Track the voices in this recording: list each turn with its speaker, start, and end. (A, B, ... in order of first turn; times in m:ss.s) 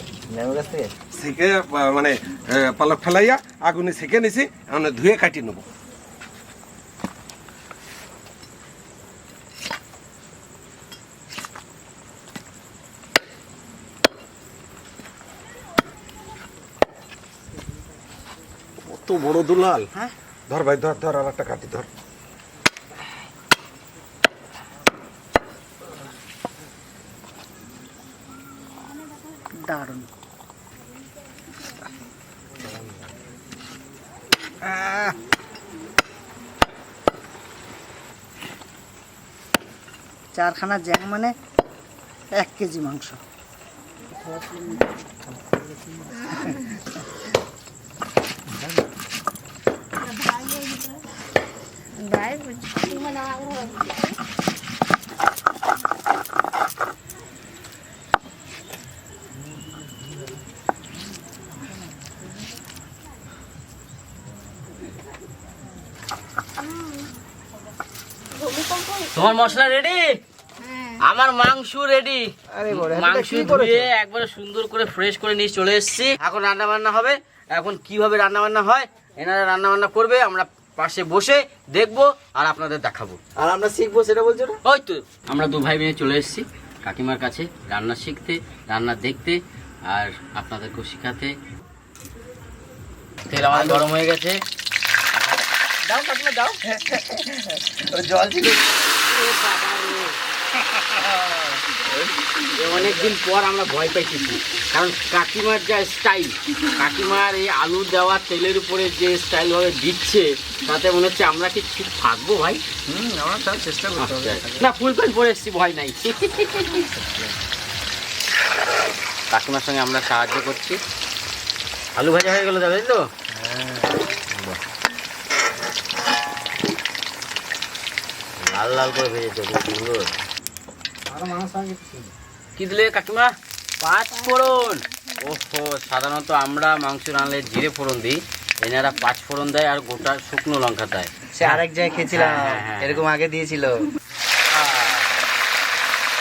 0:00.3-0:00.9 A
0:01.1-0:05.6 B
0:18.8-0:19.9 B
0:20.5-0:21.9 B
0:29.6-0:30.1 C
0:34.6-0:35.2 C
0:40.3-0:41.3 C
0:42.3-0:43.2 C
0:50.0-0:51.0 D
0:52.0-0:54.1 D
1:08.4-1:09.2 D
1:09.1-1:10.1 E
1:10.6-1:11.0 D
1:11.0-1:23.2 E
1:12.6-1:13.8 A
1:23.4-1:24.6 A
1:24.6-1:31.3 E
1:33.3-1:34.4 E
1:33.5-1:33.9 A
1:35.9-1:38.7 A
1:39.1-1:40.1 E
1:40.7-1:42.1 A
1:42.5-1:52.6 E
1:52.9-1:54.7 A
1:54.0-1:56.9 E
1:59.3-2:00.8 E
2:02.0-2:03.0 E
2:03.3-2:03.9 A
2:04.3-2:04.6 E
2:08.4-2:10.1 E
2:11.1-2:12.1 A
2:12.6-2:23.0 E
2:21.3-2:23.9 A
2:24.5-2:25.2 E